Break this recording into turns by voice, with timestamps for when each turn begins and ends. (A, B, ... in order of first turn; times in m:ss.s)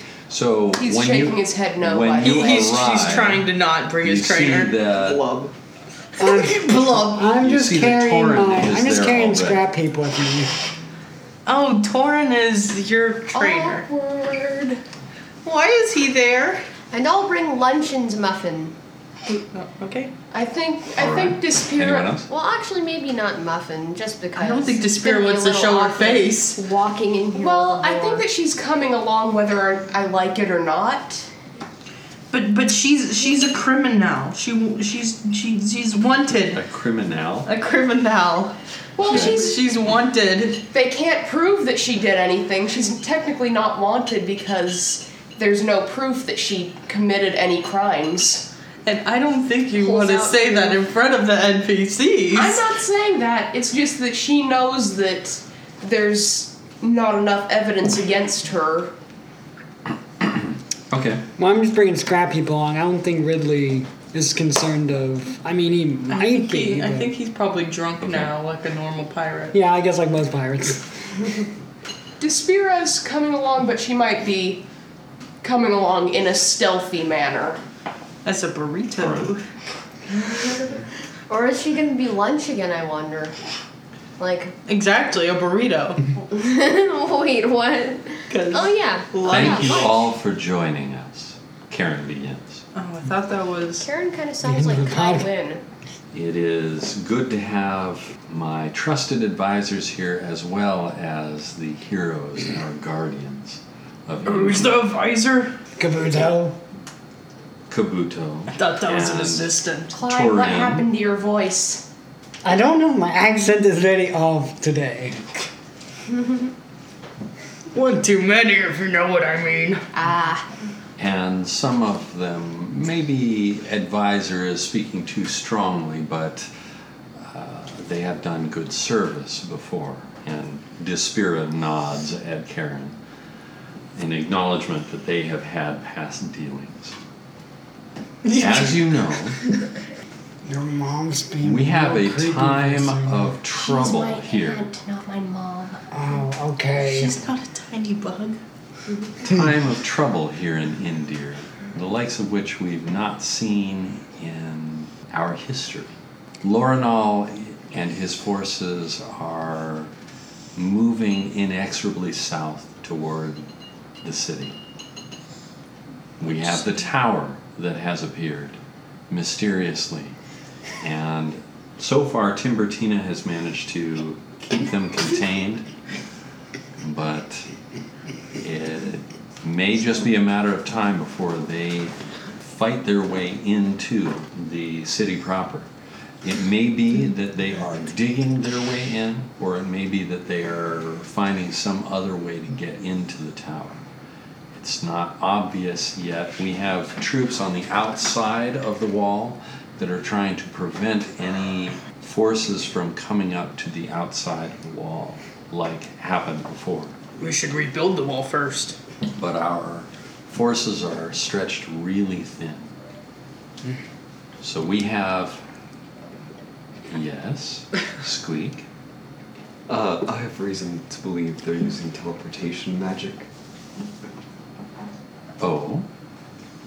0:00.3-0:03.5 A
0:00.8-0:02.8 B
0:02.2-0:04.8 C
0:04.0-0:05.2 A
0:04.9-0:05.5 D
0:06.2-0:07.3 C
0:06.2-0:10.5 E
0:07.4-0:09.6 A
0:11.4-0:13.9 C
0:13.4-0:14.8 B
0:15.4-0:16.6 C
0:16.9-0:18.7 F
0:19.3-0:20.1 C
0:20.3-0:22.2 B
0:21.0-0:22.3 A
0:22.3-0:28.2 F
0:24.4-0:26.6 C
0:27.3-0:31.3 B
0:32.3-0:36.6 C
0:36.5-0:37.5 A
0:37.4-0:40.6 C
0:39.0-0:39.6 B
0:39.1-0:39.4 A
0:40.7-0:48.5 B
0:48.8-0:52.6 C
0:49.8-0:50.8 B
0:52.3-0:58.9 B
1:00.2-1:01.2 A
1:01.4-1:07.1 E
1:06.1-1:09.6 C
1:08.0-1:08.3 A
1:09.5-1:10.9 E
1:12.2-1:14.6 B
1:15.4-1:17.6 B
1:18.2-1:19.4 C
1:19.0-1:19.3 A
1:21.3-1:23.3 F
1:24.2-1:24.5 F
1:24.7-1:26.1 C
1:26.3-1:29.8 F
1:28.3-1:29.9 C
1:29.2-1:32.6 A
1:32.7-1:33.9 C
1:33.9-1:35.6 F
1:34.4-1:35.3 E
1:36.1-1:44.9 A
1:44.2-1:45.6 C
1:45.8-1:46.6 E
1:47.7-1:50.9 A
1:48.5-1:49.9 C
1:49.9-1:51.8 B
1:52.4-1:55.2 E
1:57.7-1:59.8 C
2:01.0-2:06.5 A
2:07.2-2:13.0 A
2:13.9-2:17.0 A
2:18.3-2:18.7 C
2:18.3-2:19.4 A
2:20.4-2:23.4 E
2:21.4-2:24.6 A
2:25.9-2:27.2 E
2:26.8-2:28.4 C
2:29.2-2:39.9 A
2:40.5-2:43.4 A
2:44.0-2:44.6 A
2:46.2-2:50.2 A
2:50.8-2:55.7 A
2:56.8-2:57.5 A
2:58.4-3:05.7 A
3:06.2-3:13.8 A
3:14.5-3:27.0 A
3:27.2-3:28.8 C
3:29.1-3:32.7 A
3:34.4-3:35.4 A
3:36.9-3:38.7 A
3:39.7-3:43.3 D
3:45.4-3:45.9 A